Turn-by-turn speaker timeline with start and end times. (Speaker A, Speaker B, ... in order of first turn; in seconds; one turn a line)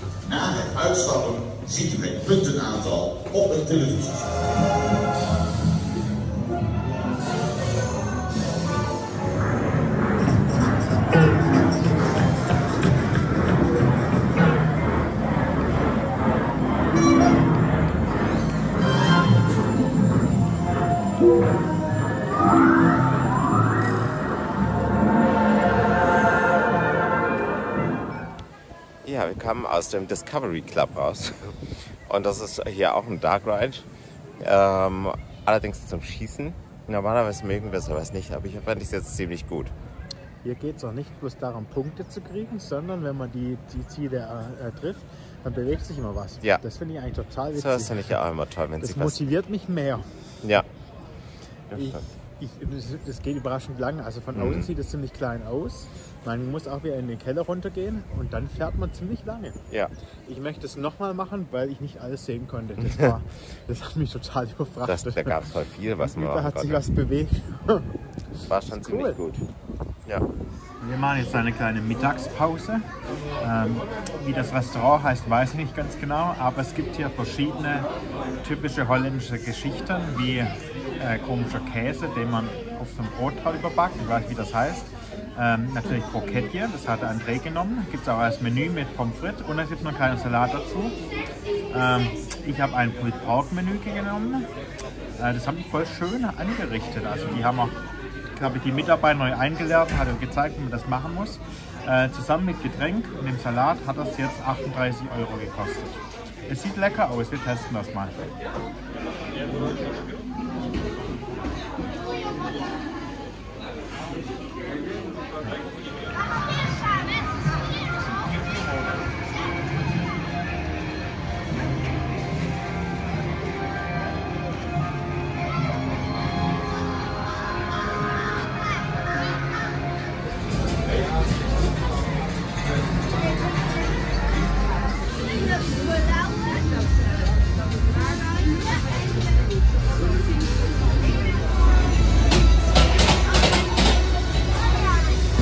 Speaker A: 0.2-4.4
Speaker B: 29.0-33.9
Speaker B: 34.4-39.7
Speaker C: 40.4-48.0
Speaker B: 47.5-49.2
Speaker C: 48.8-50.1
Speaker B: 51.7-52.0
Speaker C: 51.8-59.6
Speaker B: 54.3-54.7
Speaker C: 60.2-65.3
Speaker B: 62.8-63.1
Speaker B: 64.8-66.8
Speaker C: 66.0-68.0
Speaker B: 68.5-69.5
Speaker C: 68.7-69.2
Speaker C: 70.8-72.8
Speaker C: 73.4-77.9
Speaker C: 78.4-91.0
Speaker C: 91.7-94.5
Speaker C: 95.2-97.8
Speaker C: 98.3-108.2